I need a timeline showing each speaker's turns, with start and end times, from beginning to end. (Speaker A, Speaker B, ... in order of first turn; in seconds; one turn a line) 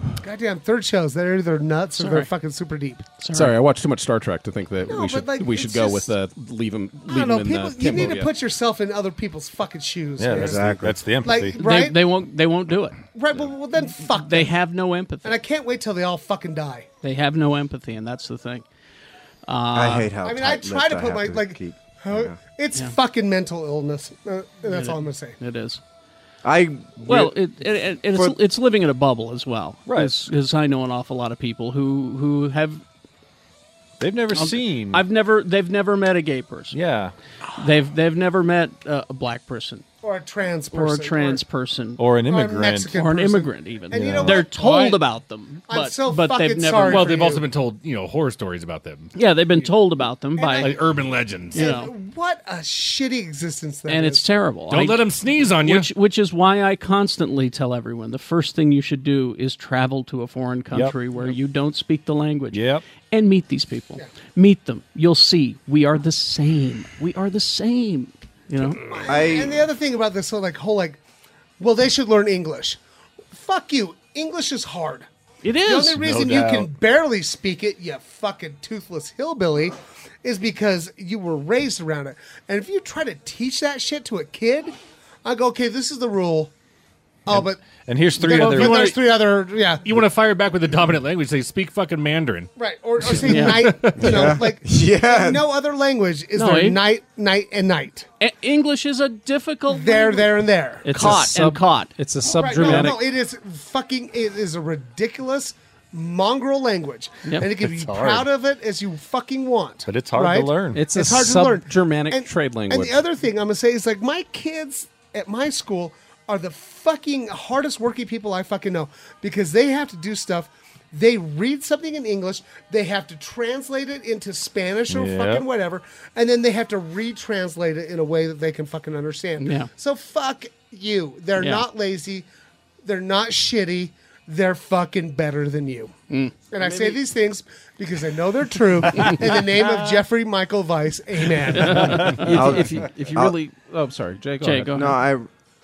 Speaker A: 0.2-3.1
Speaker B: 2.0-2.3
Speaker B: 3.2-3.6
Speaker C: 3.3-8.3
Speaker A: 4.9-6.1
Speaker A: 7.0-12.1
Speaker D: 10.2-11.6
Speaker E: 10.3-11.0
Speaker B: 11.6-13.0
Speaker A: 13.1-14.5
Speaker B: 14.0-15.4
Speaker A: 15.2-16.9
Speaker B: 17.0-18.7
Speaker B: 19.5-20.1
Speaker E: 19.7-22.4
Speaker A: 20.2-25.4
Speaker B: 24.7-25.8
Speaker E: 26.4-27.3
Speaker B: 27.1-32.8
Speaker D: 29.9-30.2
Speaker D: 34.0-35.0
Speaker B: 34.3-36.8
Speaker D: 36.7-37.1
Speaker B: 37.6-39.9
Speaker A: 40.0-41.4
Speaker B: 40.7-42.0
Speaker D: 42.0-42.9
Speaker A: 42.3-44.5
Speaker B: 42.9-47.1
Speaker D: 44.0-44.4
Speaker F: 44.4-45.0
Speaker A: 45.7-47.5
Speaker F: 46.9-49.1
Speaker B: 49.1-50.8
Speaker A: 50.4-50.8
Speaker F: 50.6-51.7
Speaker B: 51.5-51.9
Speaker A: 51.5-54.2
Speaker B: 53.9-68.8
Speaker F: 54.7-55.9
Speaker D: 62.5-62.8
Speaker A: 68.8-71.0
Speaker E: 69.1-69.6
Speaker A: 71.6-72.8
Speaker A: 73.3-75.1
Speaker B: 75.4-76.0
Speaker A: 75.7-86.5
Speaker D: 76.0-76.7
Speaker A: 87.3-87.6
Speaker D: 87.3-89.0
Speaker A: 88.2-90.0
Speaker F: 88.2-89.2
Speaker F: 89.8-92.5
Speaker A: 92.6-98.1
Speaker F: 93.1-94.2
Speaker B: 93.2-93.9
Speaker E: 94.0-95.5
Speaker B: 96.3-96.8
Speaker B: 98.2-101.9
Speaker A: 99.7-101.2
Speaker C: 100.9-103.0
Speaker A: 102.3-132.3
Speaker B: 102.5-102.9
Speaker D: 107.6-108.3
Speaker D: 109.9-110.8
Speaker C: 110.8-113.0
Speaker D: 124.9-125.5
Speaker B: 129.4-129.7
Speaker B: 131.4-131.7
Speaker A: 132.8-136.0
Speaker B: 136.1-137.0
Speaker A: 136.5-142.2
Speaker B: 141.6-142.3
Speaker C: 142.1-144.8
Speaker E: 142.2-143.4
Speaker B: 144.4-145.0
Speaker E: 144.7-145.3